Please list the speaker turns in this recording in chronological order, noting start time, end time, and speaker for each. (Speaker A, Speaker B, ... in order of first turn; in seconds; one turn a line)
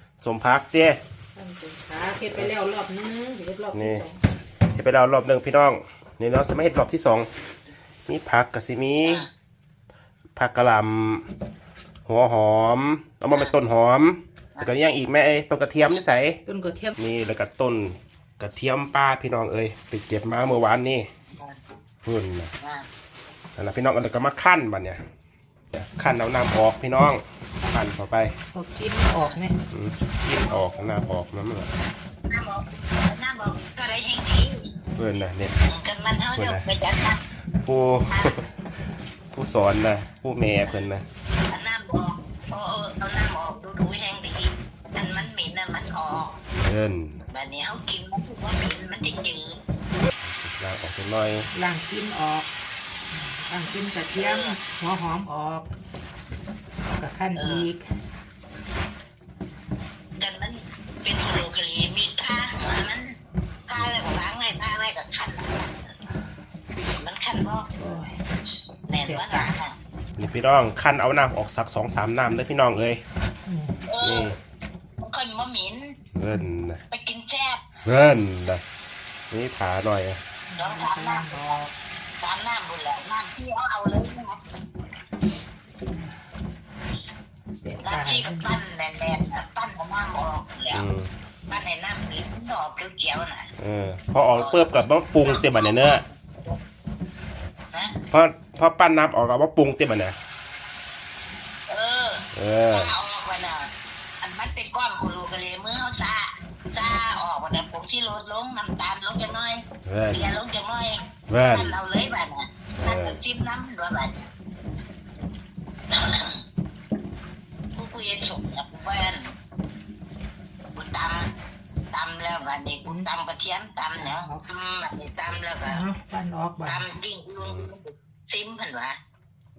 Speaker A: 0.2-1.0
Speaker B: 1.4-4.2
Speaker A: 3.7-4.1
Speaker A: 4.7-7.3
Speaker A: 8.1-9.3
Speaker C: 9.0-9.3
Speaker A: 10.3-11.3
Speaker A: 12.1-16.4
Speaker B: 16.5-17.0
Speaker A: 17.0-21.1
Speaker A: 22.0-22.5
Speaker C: 22.6-22.9
Speaker A: 23.6-25.0
Speaker A: 25.7-28.4
Speaker B: 28.5-29.6
Speaker A: 29.7-31.7
Speaker C: 30.5-30.8
Speaker C: 32.3-34.7
Speaker A: 35.0-35.6
Speaker C: 35.7-37.2
Speaker A: 36.4-36.6
Speaker A: 37.6-38.4
Speaker C: 38.1-38.4
Speaker A: 39.3-41.1
Speaker C: 41.5-46.4
Speaker A: 46.6-47.2
Speaker C: 47.3-49.6
Speaker A: 50.2-51.5
Speaker B: 51.5-52.5
Speaker B: 53.1-55.7
Speaker C: 54.1-54.6
Speaker B: 56.9-57.8
Speaker C: 57.4-57.7
Speaker C: 60.2-63.2
Speaker C: 63.7-65.9
Speaker C: 67.0-67.7
Speaker B: 67.8-68.1
Speaker C: 68.9-69.8
Speaker B: 69.0-69.5
Speaker A: 70.2-73.0
Speaker B: 73.5-73.8
Speaker C: 73.9-74.3
Speaker A: 74.0-74.4
Speaker C: 75.0-76.0
Speaker A: 76.2-76.8
Speaker C: 76.9-77.6
Speaker A: 77.8-78.6
Speaker A: 79.3-80.2
Speaker B: 80.5-81.7
Speaker C: 80.6-81.7
Speaker C: 82.2-84.4
Speaker B: 87.5-88.6
Speaker C: 87.8-90.9
Speaker A: 90.7-91.1
Speaker C: 91.5-93.5
Speaker A: 93.6-96.0
Speaker C: 94.3-96.6
Speaker C: 97.7-98.0
Speaker A: 98.1-100.2
Speaker C: 101.7-103.7
Speaker A: 102.3-102.9
Speaker C: 104.2-114.3
Speaker A: 109.9-110.2
Speaker A: 111.3-111.8
Speaker A: 112.8-113.2
Speaker C: 115.9-116.4
Speaker C: 117.8-119.3
Speaker C: 120.8-121.3
Speaker C: 121.9-125.9
Speaker B: 124.0-124.5
Speaker B: 125.6-126.9
Speaker C: 126.6-129.0
Speaker A: 127.4-127.7